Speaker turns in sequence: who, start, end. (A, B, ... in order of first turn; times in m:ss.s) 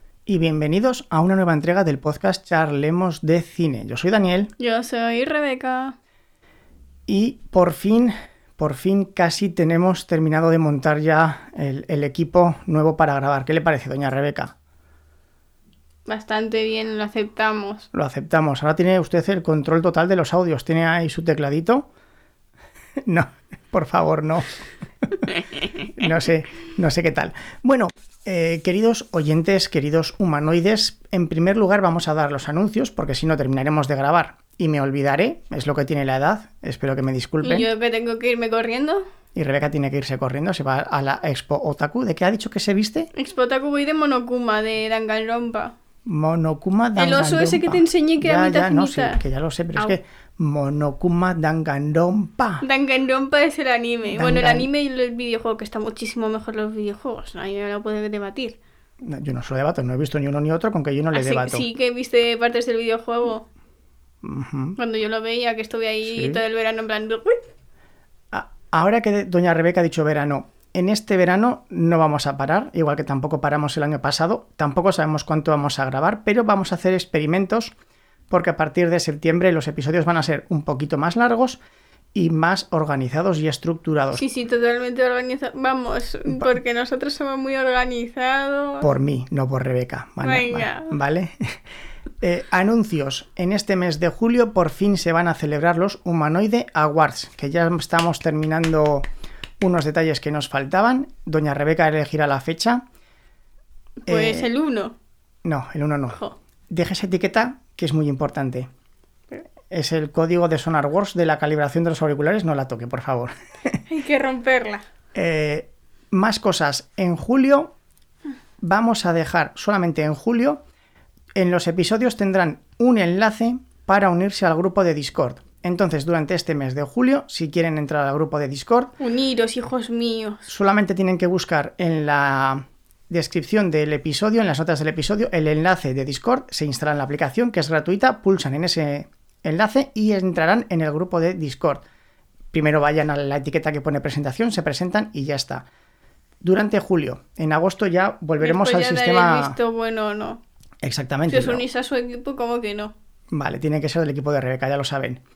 0:00.2-0:04.5 A
0:04.6-0:06.0 B
0:07.1-0:14.5 A
0:16.0-0:17.9 B
0:17.9-0:21.9 A
0:23.0-0:24.5 A
0:25.3-0:25.9 B
0:26.0-0:37.7 A
0:37.4-0:39.0 B
0:39.3-0:43.1 A
0:43.2-0:45.7 B
0:46.0-0:52.6 A
0:47.0-0:49.2 B
0:52.6-0:58.6 B
0:54.1-0:54.7 A
0:59.0-1:01.6 A
1:01.1-1:03.4 B
1:04.2-1:04.8 A
1:04.8-1:07.4 B
1:06.0-1:06.4 A
1:08.3-1:17.7 A
1:18.3-1:21.6 A
1:22.2-1:24.2 A
1:24.2-1:28.9 B
1:26.3-1:26.6 A
1:28.8-1:31.6 A
1:30.2-1:30.9 B
1:32.2-1:39.1 A
1:39.6-1:42.8 A
1:44.0-1:44.9 B
1:44.1-1:44.5 A
1:45.4-1:46.2 A
1:46.7-1:48.7 A
1:49.7-1:53.8 A
1:53.9-1:54.8 B
1:55.2-1:57.7 A
1:58.6-2:00.6 A
2:01.4-2:08.9 A
2:09.0-2:10.5 B
2:10.5-2:21.8 A
2:22.5-2:25.7 A
2:26.4-2:29.6 A
2:28.4-2:30.4 B
2:30.8-2:31.6 A
2:31.3-2:32.9 B
2:33.3-2:35.2 A